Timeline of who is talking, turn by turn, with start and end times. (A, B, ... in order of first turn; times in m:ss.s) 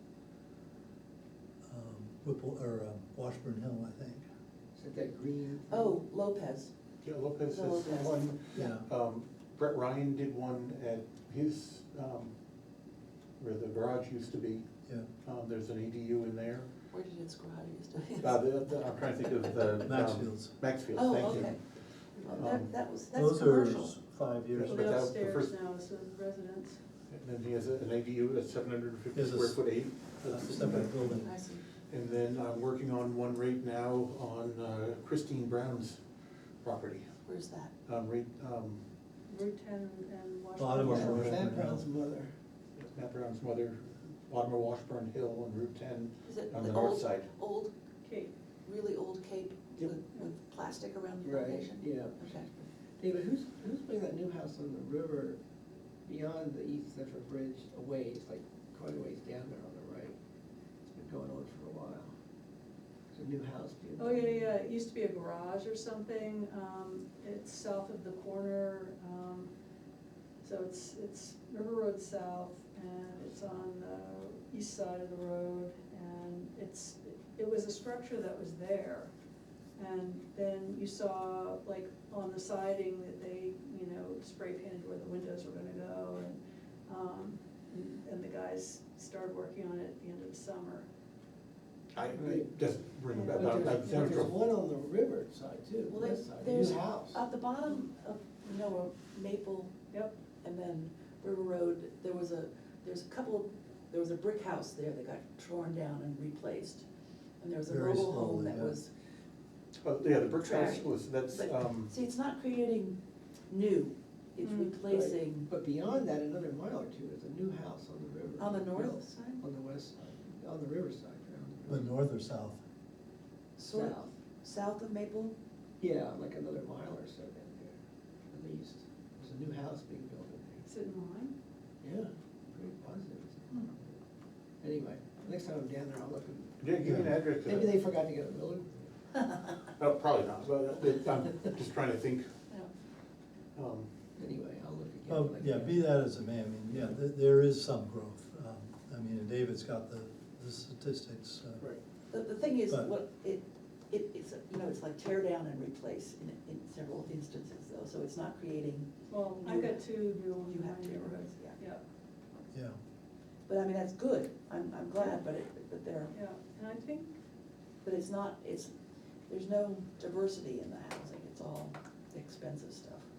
0:01.7-0:04.2 A
0:04.8-0:06.0 B
0:05.7-0:06.7 C
0:07.0-0:12.3 D
0:07.4-0:08.7 C
0:08.6-0:08.9 A
0:13.4-0:14.6 D
0:15.2-0:16.7 D
0:16.9-0:18.5 C
0:18.2-0:21.6 D
0:19.2-0:19.8 C
0:19.8-0:20.6 A
0:21.0-0:21.6 C
0:22.2-0:24.0 C
0:22.3-0:22.7 D
0:23.1-0:24.9 A
0:24.5-0:25.5 D
0:24.6-0:26.8 E
0:27.1-0:31.1 D
0:29.1-0:29.6 A
0:30.1-0:31.3 A
0:31.2-0:31.6 C
0:31.9-0:36.0 D
0:36.6-0:37.1 D
0:37.2-0:37.7 C
0:37.9-0:38.8 D
0:39.3-0:41.3 E
0:40.6-0:41.9 A
0:40.8-0:42.3 B
0:41.0-0:41.5 D
0:42.8-0:47.3 D
0:46.3-0:47.7 C
0:48.0-0:48.3 E
0:48.6-0:52.7 C
0:51.2-0:52.2 B
0:53.0-0:55.4 B
0:56.0-1:00.2 B
1:00.9-1:02.1 B
1:03.1-1:04.5 B
1:04.0-1:09.5 E
1:10.4-1:19.1 E
1:19.8-1:30.9 E
1:31.9-1:34.3 D
1:32.1-1:32.5 B
1:33.1-1:34.2 E
1:33.3-1:37.2 B
1:35.9-1:39.7 C
1:40.4-1:46.8 C
1:47.4-1:48.9 C
1:47.7-1:48.8 A
1:49.8-1:51.9 D
1:50.4-1:53.0 C
1:53.5-1:55.5 C
1:54.4-1:54.8 E
1:54.9-2:01.9 B
1:58.4-1:59.4 C
2:01.7-2:02.6 A
2:03.6-2:05.4 C
2:03.7-2:04.0 B
2:05.8-2:07.8 B
2:08.3-2:10.7 B
2:10.7-2:11.3 E
2:11.8-2:14.0 B
2:14.6-2:18.9 B
2:16.6-2:17.7 D
2:16.8-2:17.1 A
2:19.7-2:22.3 D
2:23.6-2:23.9 D
2:24.2-2:25.9 B
2:25.1-2:31.6 A
2:32.1-2:41.6 C
2:39.1-2:41.8 E
2:42.5-2:42.8 A
2:43.5-2:46.2 C
2:46.1-2:47.1 E
2:47.8-2:48.7 C
2:49.3-2:53.0 C